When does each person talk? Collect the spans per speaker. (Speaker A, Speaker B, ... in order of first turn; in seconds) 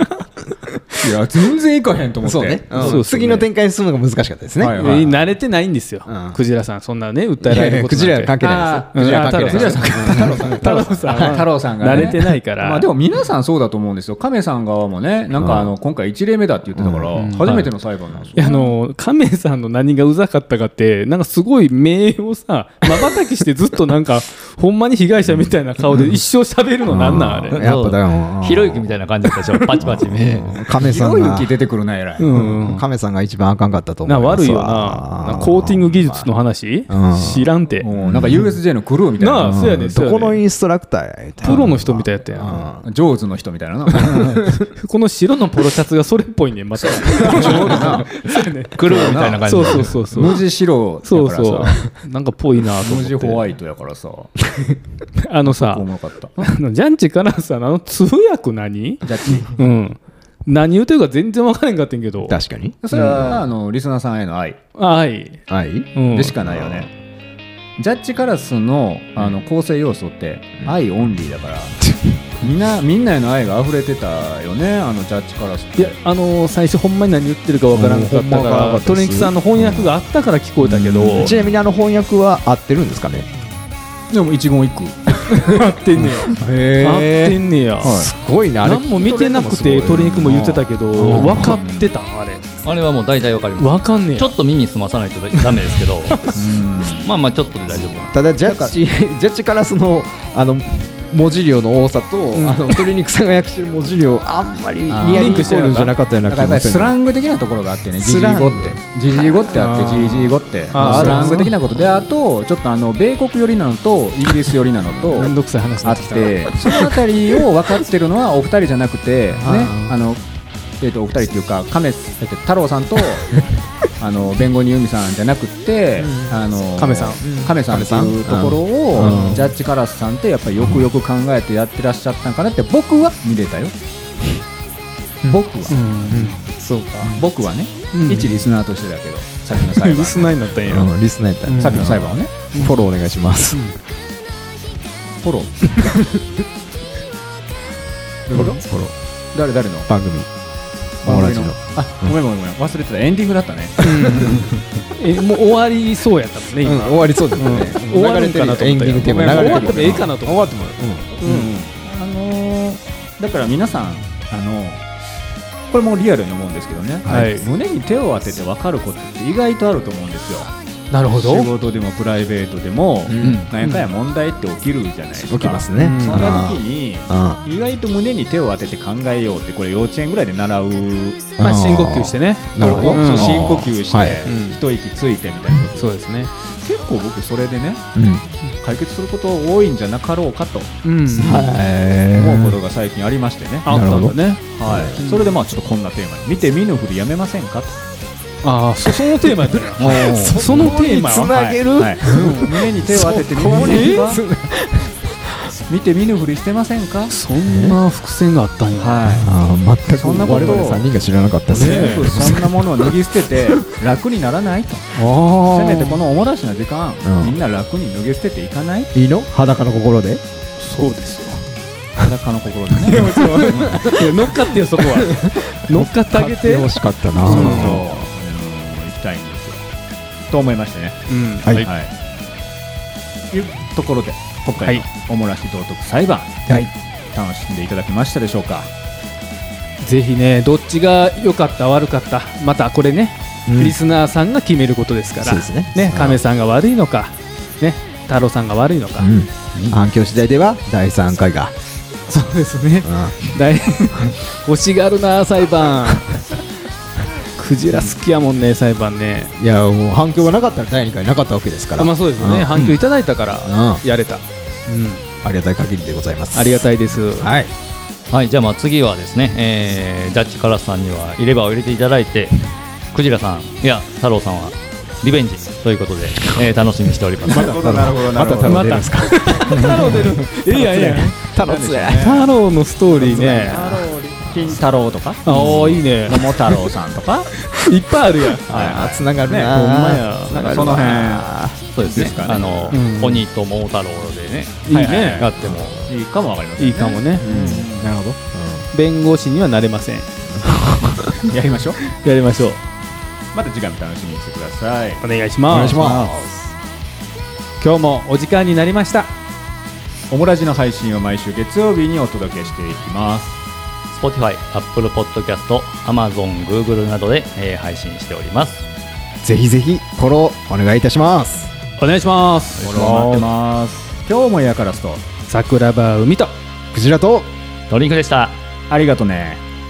Speaker A: 1.0-3.0, 4.6-5.2, 8.4-18.7, 30.8-32.4, 37.8-39.8, 42.8-44.4, 46.9-48.1, 48.8-51.8, 52.8-54.4, 55.4-56.3, 59.0-59.6, 62.8-64.6, 66.1-66.9, 67.8-71.8, 72.4-75.9, 81.1-81.4, 84.1-85.5, 87.8-88.1, 90.2-91.8, 96.3-97.0, 98.4-98.7, 104.9-120.2, 120.8-123.5, 124.0-133.7, 135.2-136.4, 137.0-140.4, 141.6-142.3, 145.2-146.3, 148.3-148.7, 149.3-149.9, 151.0-154.6, 159.0-160.1, 161.2-164.8, 165.7-170.5, 171.1-181.2, 182.6-185.8, 186.4-187.8, 188.6-191.5, 192.1-193.8, 194.4-197.8, 199.8-204.2, 205.7-207.1, 208.8-209.3, 209.9-210.9, 211.5-214.9, 215.4-218.9, 222.0-224.1, 227.2-229.6, 230.3-231.0, 231.5-231.9, 233.3-238.7, 277.2-278.9, 279.5-282.3, 282.9-287.3, 288.5-289.5, 290.3-291.3, 291.8-292.8, 294.7-297.9, 301.1-301.8, 303.3-305.0, 305.7-306.1, 310.1-313.4, 322.6-325.0, 328.7-329.4
Speaker B: 2.2-4.8, 6.0-6.4, 7.4-12.2, 15.4-15.7, 16.8-17.1, 26.9-31.5, 32.3-36.3, 36.9-37.5, 38.0-38.5, 39.4-42.8, 47.3-48.1, 62.2-63.4, 65.5-66.9, 71.8-72.2, 77.7-79.9, 80.6-83.3, 86.0-90.4, 90.9-91.6, 98.1-107.0, 108.0-108.7, 110.8-111.5, 119.4-119.9, 126.0-126.4, 127.2-129.5, 130.6-130.9, 136.1-137.2, 140.7-143.6, 148.3-148.9, 149.9-150.3, 151.0-152.1, 153.8-154.4, 156.6-161.2, 173.1-173.5, 175.3-177.4, 181.4-184.2, 187.9-188.2, 191.2-192.6, 193.7-195.0, 199.4-205.5, 207.4-207.8, 209.1-212.9, 217.0-217.4, 218.9-220.2, 222.9-228.1, 243.4-243.8, 245.2-246.2, 249.0-251.5, 252.8-253.4, 259.4-262.7, 263.4-263.8, 265.2-267.5, 277.3-280.1, 281.2-282.2, 288.4-291.6, 297.2-298.7, 300.3-301.1, 305.5-306.5, 319.2-321.5, 326.7-327.3
Speaker C: 2.7-3.5, 4.6-8.3, 8.9-12.9, 17.1-17.7, 18.3-27.6, 32.2-32.8, 34.0-37.9, 39.2-40.4, 41.4-42.6, 43.9-50.4, 51.0-53.5, 55.2-55.8, 56.4-62.4, 64.7-65.4, 65.9-66.3, 75.8-81.3, 85.3-88.0, 88.6-92.5, 93.6-94.3, 102.3-102.8, 105.0-105.9, 109.5-111.5, 115.1-116.9, 126.8-127.2, 129.0-129.4, 135.7-136.4, 137.9-138.3, 139.8-140.9, 141.4-142.0, 142.5-142.8, 143.5-143.7, 153.8-154.4, 154.9-160.5, 161.2-161.5, 167.1-167.5, 170.9-171.5, 173.3-173.8, 175.8-176.4, 181.4-183.6, 184.2-184.6, 185.7-186.3, 190.8-191.5, 193.7-195.3, 198.4-201.3, 202.0-204.2, 207.1-209.1, 211.5-212.3, 214.9-216.0, 220.6-221.5, 222.9-227.9, 231.1-231.7, 239.8-249.1, 252.1-256.2, 257.2-259.3, 261.8-265.0, 266.3-267.3, 278.4-281.1, 281.9-283.9, 285.2-286.6, 287.4-288.5, 289.4-290.4, 292.7-293.2, 294.6-295.3, 296.6-297.3, 298.7-300.1, 301.8-302.6, 305.0-305.9, 307.6-309.1, 321.8-323.2, 325.3-326.4
Speaker D: 27.5-30.6, 48.7-50.2, 92.6-96.3, 96.9-98.1, 199.8-200.3, 268.1-277.6, 291.7-295.8, 313.9-318.6, 327.7-328.4